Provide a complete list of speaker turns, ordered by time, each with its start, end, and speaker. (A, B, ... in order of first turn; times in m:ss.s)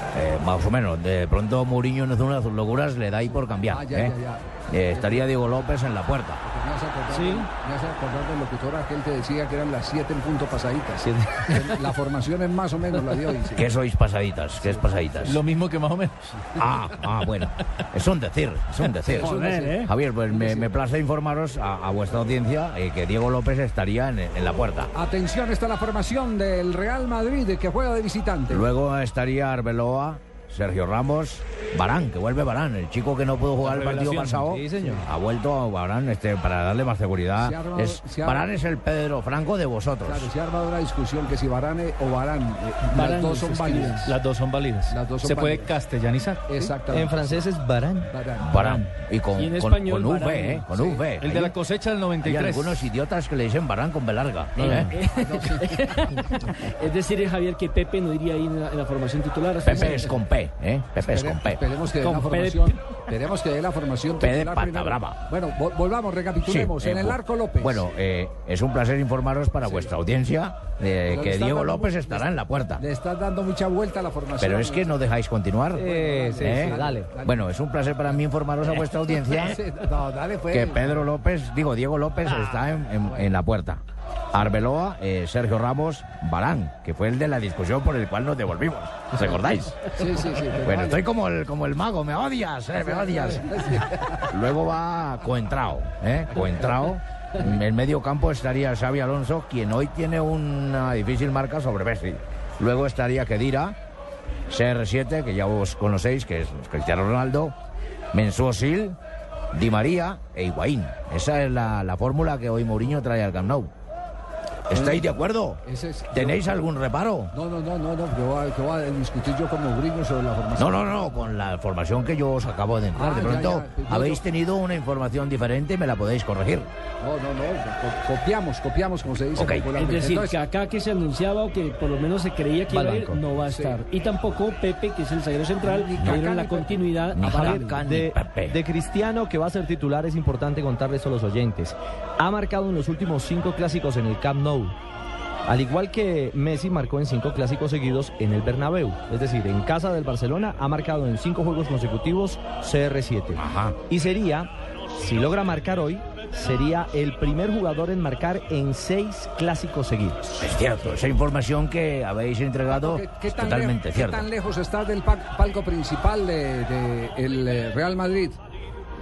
0:00.1-0:04.1 A
0:03.2-0:05.8 B
0:04.7-0:06.4 A
0:06.4-0:13.7 B
0:07.1-0:07.4 C
0:11.0-0:11.5 D
0:13.5-0:15.4 A
0:14.6-0:15.3 B
0:15.2-0:16.2 E
0:16.6-0:24.9 A
0:19.1-0:20.7 B
0:19.2-0:19.9 E
0:24.9-0:28.7 B
0:28.5-0:40.3 A
0:33.7-0:35.0 D
0:33.9-0:34.3 E
0:37.4-0:38.5 B
0:40.0-0:44.1 B
0:42.9-0:44.0 C
0:44.0-0:46.7 E
0:44.9-0:45.7 B
0:46.5-0:47.4 B
0:46.9-0:48.1 D
0:48.1-0:48.5 B
0:48.4-0:51.5 A
0:49.4-0:50.6 C
0:50.7-0:51.1 B
0:51.2-0:52.9 E
0:52.2-0:54.9 A
0:54.6-0:54.9 D
0:54.9-1:00.1 C
0:55.2-0:55.9 B
0:59.6-1:01.6 A
0:59.7-1:00.2 B
1:01.0-1:07.9 B
1:01.9-1:02.6 C
1:04.2-1:05.2 A
1:06.4-1:12.8 A
1:09.6-1:10.0 B
1:11.0-1:15.1 B
1:14.4-1:19.6 A
1:15.7-1:17.5 B
1:15.7-1:17.1 D
1:19.1-1:21.1 B
1:20.5-1:23.8 A
1:23.0-1:23.3 B
1:24.3-1:43.8 A
1:29.1-1:31.1 B
1:32.8-1:34.2 B
1:36.3-1:36.9 B
1:44.5-1:47.5 A
1:48.1-1:49.0 A
1:49.5-1:53.7 A
1:54.7-1:55.6 A
1:54.7-1:56.7 B
1:56.1-1:57.3 A
1:57.3-2:01.5 B
2:00.6-2:06.7 A
2:02.9-2:04.2 B
2:07.0-2:10.4 B
2:09.4-2:09.7 A
2:09.7-2:17.7 C
2:12.7-2:13.2 D
2:13.4-2:13.8 B
2:15.6-2:17.8 B
2:16.0-2:16.3 A
2:17.1-2:18.6 A
2:17.3-2:24.7 D
2:25.5-2:40.4 D
2:33.3-2:33.8 A
2:40.4-2:44.3 A
2:42.7-2:48.4 B